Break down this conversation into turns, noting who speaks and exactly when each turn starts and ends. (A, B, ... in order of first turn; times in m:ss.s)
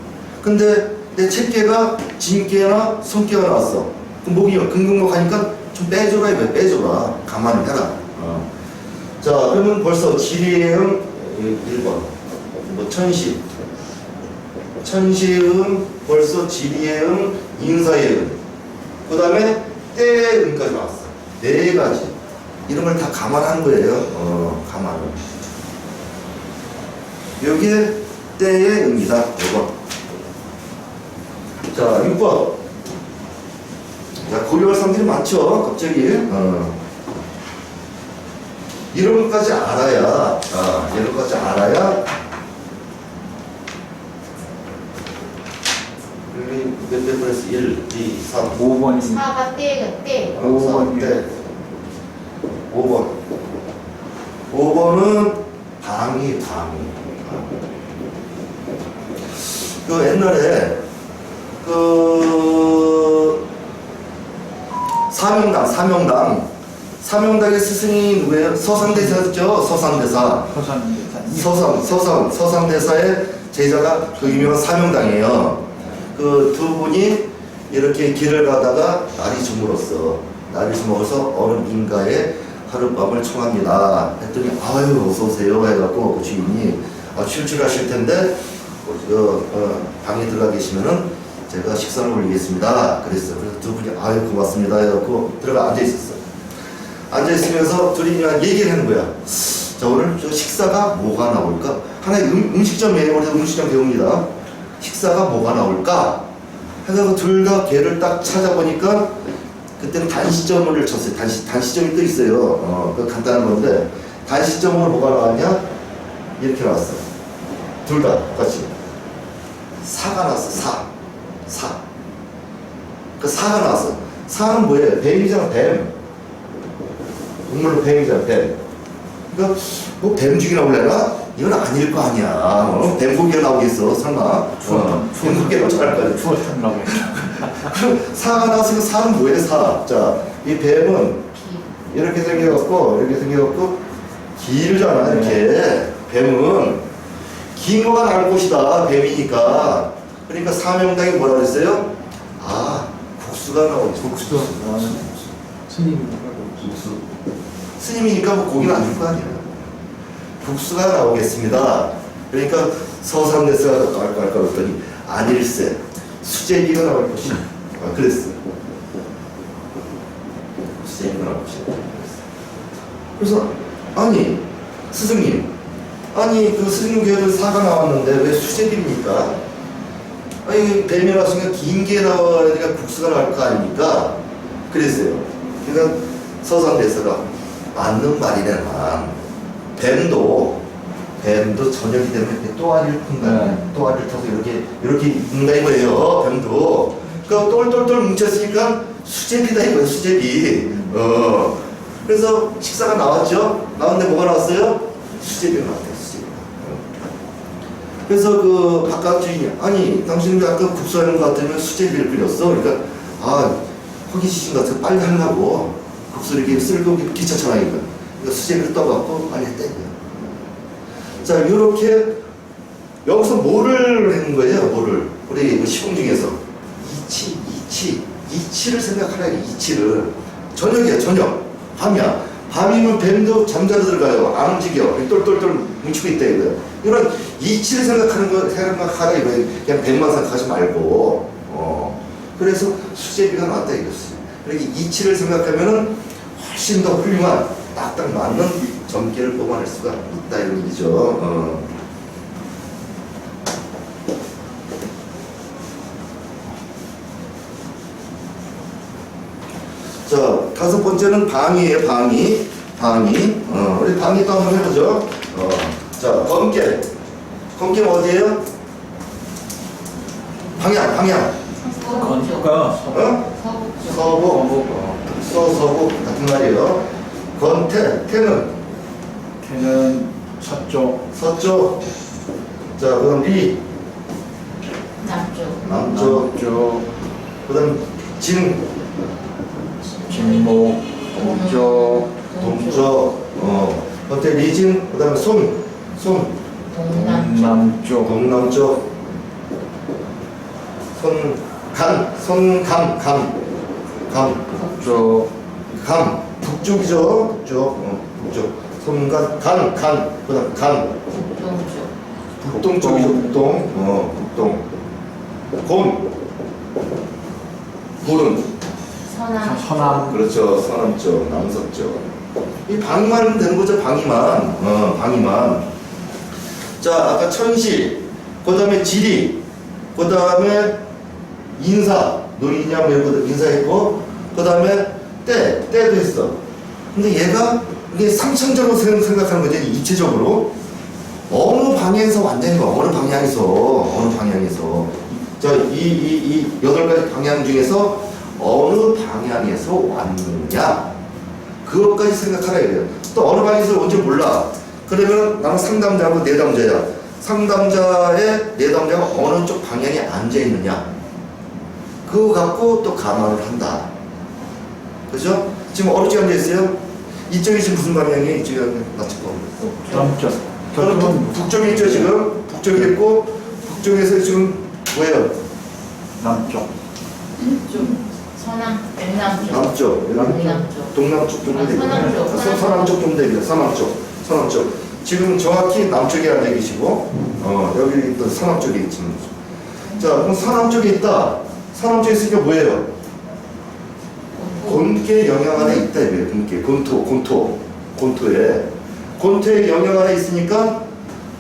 0:00.4-0:08.5 A
0:09.2-0:12.1 A
0:12.6-0:13.4 A
0:14.8-0:18.4 A
0:19.1-0:22.2 A
0:22.7-0:25.2 A
0:27.4-0:29.8 A
0:31.7-0:32.6 A
0:34.3-0:36.8 A
0:38.9-0:42.0 A
0:46.3-0:48.6 A
0:48.5-0:49.3 B
0:49.0-0:50.4 C
0:50.3-0:51.3 A
0:50.4-0:51.1 B
0:52.7-0:53.2 A
0:54.5-0:57.6 A
0:59.8-1:00.8 A
1:01.6-1:03.4 A
1:05.1-1:06.5 A
1:07.0-1:10.6 A
1:08.8-1:09.2 B
1:10.3-1:11.8 B
1:11.3-1:36.2 A
1:37.1-1:44.3 A
1:44.8-1:46.3 A
1:46.8-1:49.2 A
1:49.8-1:55.7 A
1:56.4-1:57.0 A
1:57.8-1:58.8 A
1:59.8-2:00.9 A
2:01.5-2:01.8 A
2:03.2-2:05.9 A
2:07.5-2:08.6 A
2:09.3-2:21.3 A
2:14.6-2:17.7 B
2:21.4-2:21.7 C
2:21.9-2:23.8 A
2:24.4-2:26.8 A
2:24.9-2:25.4 B
2:27.5-2:35.2 A
2:34.0-2:35.1 B
2:35.7-2:37.0 B
2:37.8-2:39.6 A
2:40.4-2:48.4 A
2:50.8-2:52.2 A
2:53.2-2:55.5 A
2:56.1-2:59.4 A
3:00.4-3:04.2 A
3:04.7-3:09.2 A
3:09.8-3:10.6 A
3:11.2-3:27.0 A
3:13.2-3:13.6 B
3:28.1-3:40.4 A
3:41.2-3:42.2 A
3:43.0-4:11.7 A
4:20.1-4:26.9 A
4:27.6-4:28.4 A
4:30.6-4:31.4 A
4:31.6-4:34.1 C
4:31.9-4:33.3 B
4:32.9-4:33.2 A
4:33.8-4:38.5 A
4:34.1-4:35.0 B
4:39.4-4:41.0 B
4:41.1-4:41.8 A
4:42.8-4:43.6 A
4:45.0-4:45.6 C
4:45.6-4:46.3 A
4:45.7-4:46.9 B
4:47.5-4:48.6 A
4:49.7-4:52.9 C
4:50.1-4:52.1 B
4:52.4-4:56.4 A
4:56.7-4:57.6 C
4:56.9-4:58.2 B
4:58.0-4:58.9 A
5:01.0-5:03.4 A
5:04.1-5:04.6 A
5:04.6-5:05.3 B
5:05.8-5:11.0 A
5:11.1-5:11.9 C
5:12.4-5:13.6 B
5:12.4-5:14.6 A
5:15.6-5:16.1 A
5:18.0-5:18.5 A
5:19.1-5:20.1 C
5:19.4-5:20.2 B
5:20.0-5:22.1 A
5:22.7-5:25.6 A
5:26.8-5:29.4 A
5:30.0-5:30.8 A
5:31.6-5:36.4 A
5:36.9-5:40.5 A
5:41.3-5:50.9 A
5:51.6-6:00.9 A
6:02.0-6:03.9 A
6:05.1-6:06.8 A
6:07.3-6:09.5 A
6:09.6-6:10.2 C
6:09.9-6:12.2 B
6:10.7-6:15.3 A
6:16.2-6:16.7 B
6:17.4-6:21.0 C
6:19.5-6:29.3 A
6:21.5-6:22.9 C
6:21.8-6:22.2 B
6:30.0-6:32.9 A
6:34.4-6:34.8 C
6:34.6-6:40.8 A